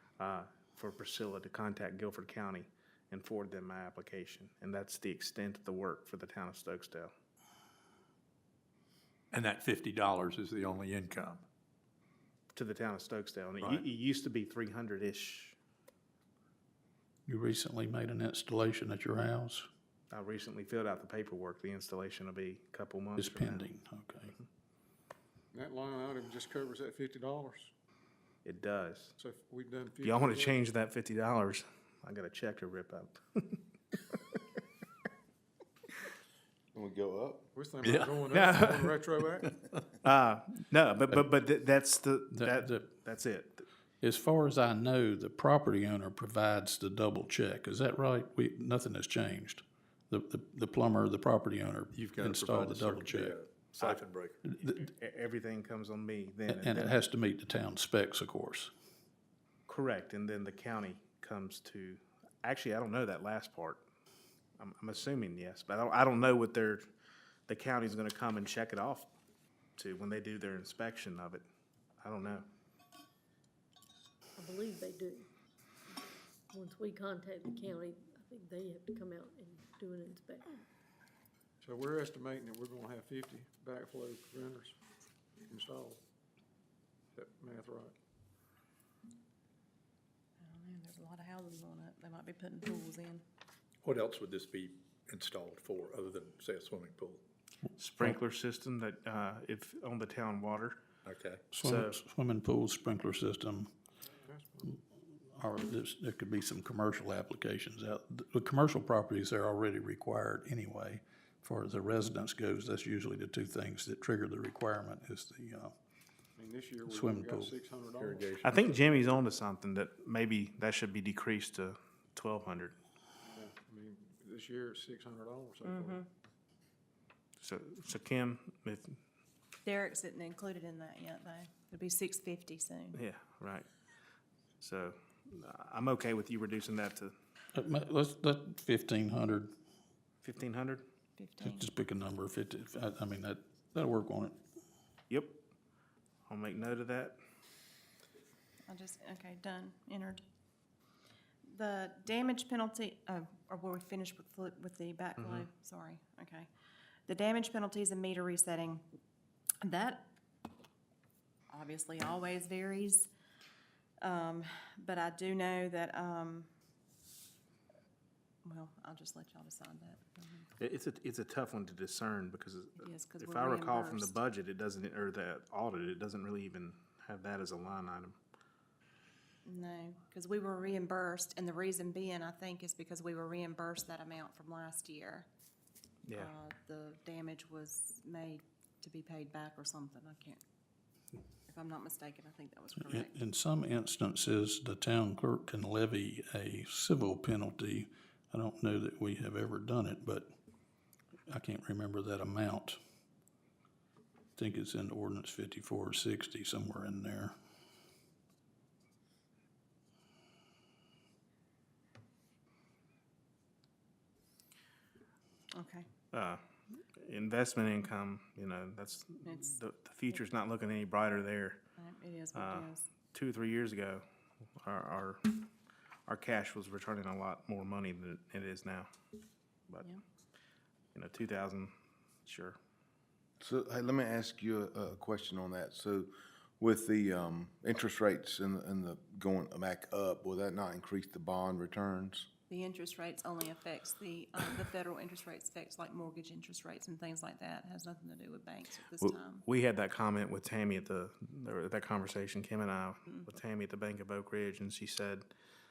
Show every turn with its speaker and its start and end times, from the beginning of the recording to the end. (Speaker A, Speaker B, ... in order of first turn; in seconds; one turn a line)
Speaker A: 0.2-7.1
Speaker B: 9.3-11.4
Speaker A: 12.5-15.6
Speaker B: 13.6-13.8
Speaker C: 17.3-19.6
Speaker A: 20.1-23.7
Speaker C: 23.2-24.3
Speaker D: 25.5-27.7
Speaker A: 28.4-29.1
Speaker D: 29.2-30.6
Speaker A: 30.0-33.6
Speaker E: 36.7-37.5
Speaker D: 37.5-39.5
Speaker B: 37.8-38.8
Speaker A: 38.3-38.8
Speaker A: 40.0-43.6
Speaker C: 42.3-42.9
Speaker C: 44.0-53.4
Speaker B: 51.9-54.4
Speaker C: 54.5-54.8
Speaker A: 54.6-57.0
Speaker C: 56.5-58.7
Speaker A: 59.7-63.8
Speaker A: 64.6-66.8
Speaker A: 67.5-69.1
Speaker A: 69.8-71.4
Speaker A: 72.0-72.5
Speaker F: 74.4-75.3
Speaker F: 76.5-80.6
Speaker D: 81.6-84.8
Speaker D: 85.5-86.0
Speaker D: 87.1-87.9
Speaker G: 90.4-93.2
Speaker B: 93.8-97.2
Speaker A: 97.8-100.8
Speaker B: 101.0-101.5
Speaker C: 101.5-103.7
Speaker A: 101.6-101.9
Speaker D: 104.2-104.7
Speaker C: 105.3-115.7
Speaker D: 116.4-118.2
Speaker C: 116.8-117.5
Speaker B: 118.0-118.6
Speaker A: 118.4-122.7
Speaker D: 123.2-126.0
Speaker G: 125.6-126.1
Speaker A: 127.4-129.0
Speaker G: 129.6-133.0
Speaker A: 132.9-133.7
Speaker A: 134.6-137.1
Speaker C: 137.5-139.5
Speaker A: 140.2-140.8
Speaker G: 141.2-141.7
Speaker C: 141.4-144.3
Speaker A: 145.1-145.4
Speaker A: 146.3-147.2
Speaker G: 148.7-150.2
Speaker G: 151.4-156.5
Speaker A: 155.2-155.4
Speaker G: 157.1-158.8
Speaker G: 159.6-160.1
Speaker G: 161.5-163.1
Speaker G: 164.0-166.5
Speaker G: 168.4-170.5
Speaker A: 170.6-178.2
Speaker G: 172.8-174.2
Speaker G: 179.4-185.3
Speaker A: 186.0-186.3
Speaker G: 186.1-190.4
Speaker G: 191.5-193.1
Speaker C: 192.8-200.3
Speaker C: 201.3-202.8
Speaker C: 204.3-207.3
Speaker G: 215.5-215.9
Speaker A: 216.1-216.4
Speaker A: 217.0-221.6
Speaker G: 219.2-219.5
Speaker G: 221.8-222.8
Speaker A: 222.3-224.0
Speaker A: 224.6-225.5
Speaker A: 226.1-228.9
Speaker A: 230.9-232.6
Speaker E: 233.4-242.3
Speaker G: 242.5-249.4
Speaker A: 249.0-255.2